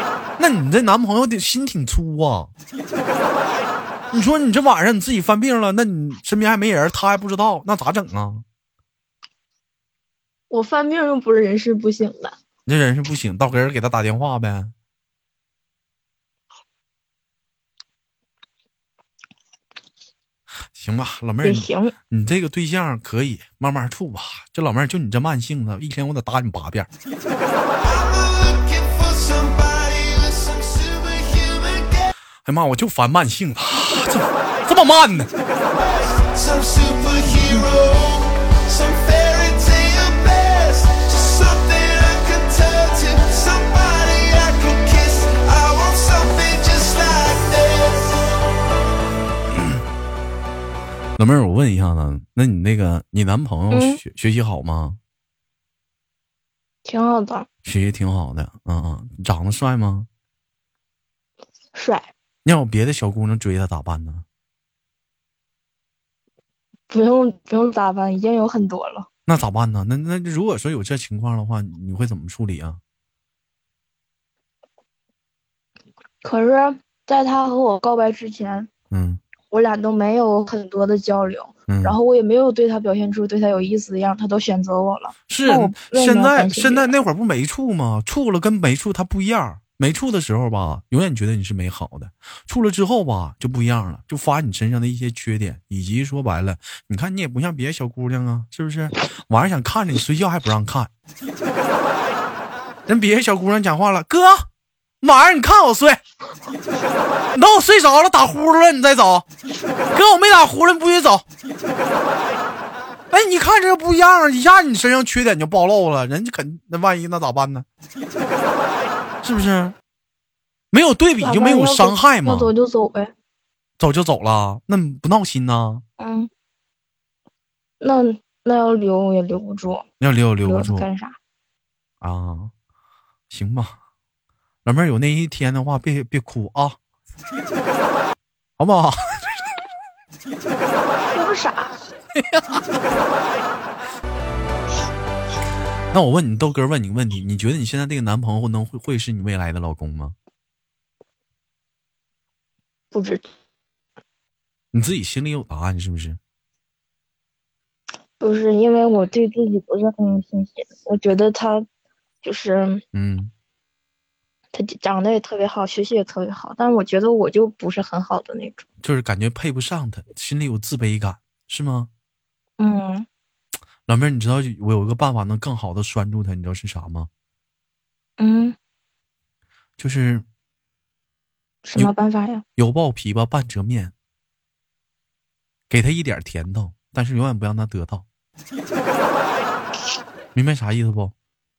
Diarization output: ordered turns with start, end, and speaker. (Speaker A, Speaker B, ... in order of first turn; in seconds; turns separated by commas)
Speaker A: 0.4-2.5, Speaker A: 4.1-8.4, Speaker B: 10.5-12.3, Speaker A: 12.7-14.7, Speaker A: 20.7-26.9, Speaker B: 21.4-21.9, Speaker C: 27.8-32.1, Speaker A: 32.4-35.3, Speaker C: 35.8-48.3, Speaker A: 51.2-55.0, Speaker B: 53.7-54.0, Speaker B: 56.8-57.5, Speaker A: 57.6-60.1, Speaker B: 61.7-62.1, Speaker A: 62.4-64.2, Speaker B: 66.9-69.1, Speaker A: 69.2-72.8, Speaker B: 76.2-78.7, Speaker A: 78.9-79.2, Speaker B: 79.5-86.9, Speaker A: 81.7-82.0, Speaker A: 85.3-100.9, Speaker A: 102.9-104.5, Speaker A: 105.0-106.0, Speaker A: 107.3-109.2, Speaker A: 109.9-111.2, Speaker A: 113.1-117.6, Speaker A: 119.2-119.7, Speaker A: 120.7-122.5, Speaker B: 121.2-123.1, Speaker A: 123.8-125.8, Speaker B: 126.0-126.3, Speaker B: 127.8-129.8, Speaker A: 130.0-130.9, Speaker B: 130.4-131.2, Speaker A: 132.0-132.5, Speaker A: 133.3-133.7, Speaker A: 134.6-136.8, Speaker A: 138.6-139.4, Speaker B: 141.1-141.7, Speaker A: 142.1-142.6, Speaker A: 145.9-150.2, Speaker B: 152.9-153.2, Speaker A: 154.7-156.2, Speaker B: 158.2-161.7, Speaker B: 162.2-162.8, Speaker A: 162.9-163.3, Speaker B: 164.5-168.6, Speaker A: 168.8-171.9, Speaker B: 172.6-173.1, Speaker A: 173.8-177.1, Speaker B: 178.2-178.6, Speaker A: 179.8-180.2, Speaker B: 181.6-182.4, Speaker A: 182.6-183.9, Speaker A: 185.7-188.0, Speaker A: 190.3-191.1